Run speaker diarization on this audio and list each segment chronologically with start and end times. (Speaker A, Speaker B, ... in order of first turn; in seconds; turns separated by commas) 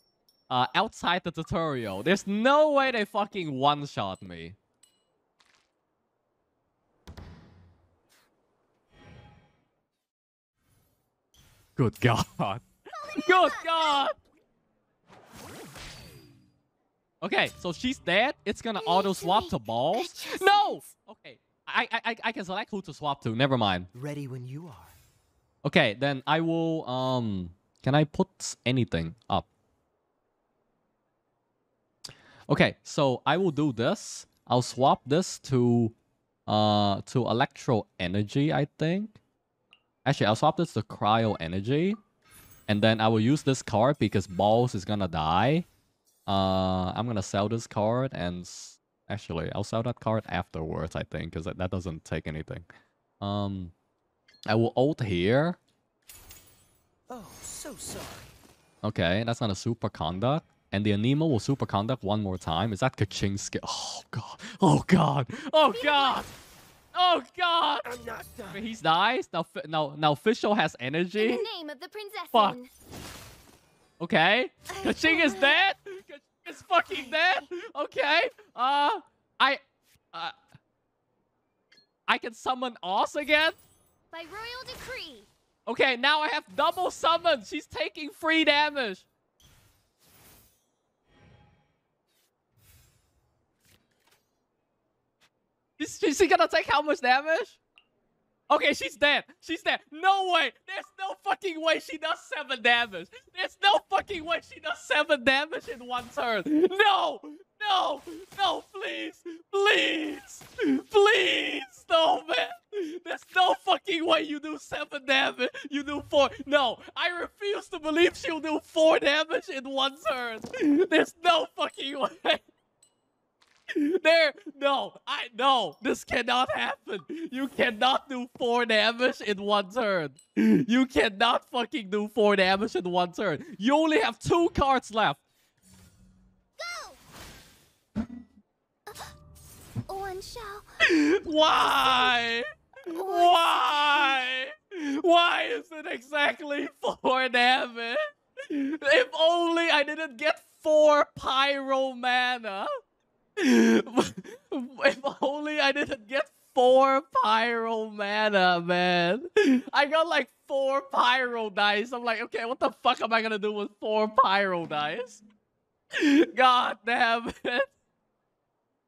Speaker A: 0.5-4.6, Speaker A: 11.8-12.6, Speaker B: 13.0-14.1, Speaker A: 13.2-14.1, Speaker A: 17.2-23.9, Speaker B: 18.8-20.9, Speaker C: 23.9-24.9, Speaker A: 25.6-29.5, Speaker A: 32.5-36.0, Speaker A: 36.5-39.2, Speaker A: 40.0-42.0, Speaker A: 42.7-45.7, Speaker A: 46.3-52.7, Speaker A: 53.2-53.7, Speaker A: 54.5-55.6, Speaker C: 57.1-58.3, Speaker A: 58.8-66.3, Speaker B: 65.7-66.3, Speaker A: 66.9-67.9, Speaker C: 67.9-68.6, Speaker A: 68.5-71.5, Speaker B: 71.2-72.7, Speaker A: 72.3-72.6, Speaker A: 74.0-79.6, Speaker B: 74.7-75.6, Speaker A: 82.1-83.6, Speaker B: 84.1-85.3, Speaker A: 85.7-89.1, Speaker A: 95.8-97.6, Speaker A: 98.5-122.5, Speaker A: 123.7-135.2, Speaker B: 136.6-137.0, Speaker B: 138.9-139.1, Speaker B: 139.9-140.7, Speaker A: 140.8-152.7, Speaker B: 141.6-142.2, Speaker B: 142.9-144.2, Speaker A: 153.4-165.2, Speaker A: 165.9-167.7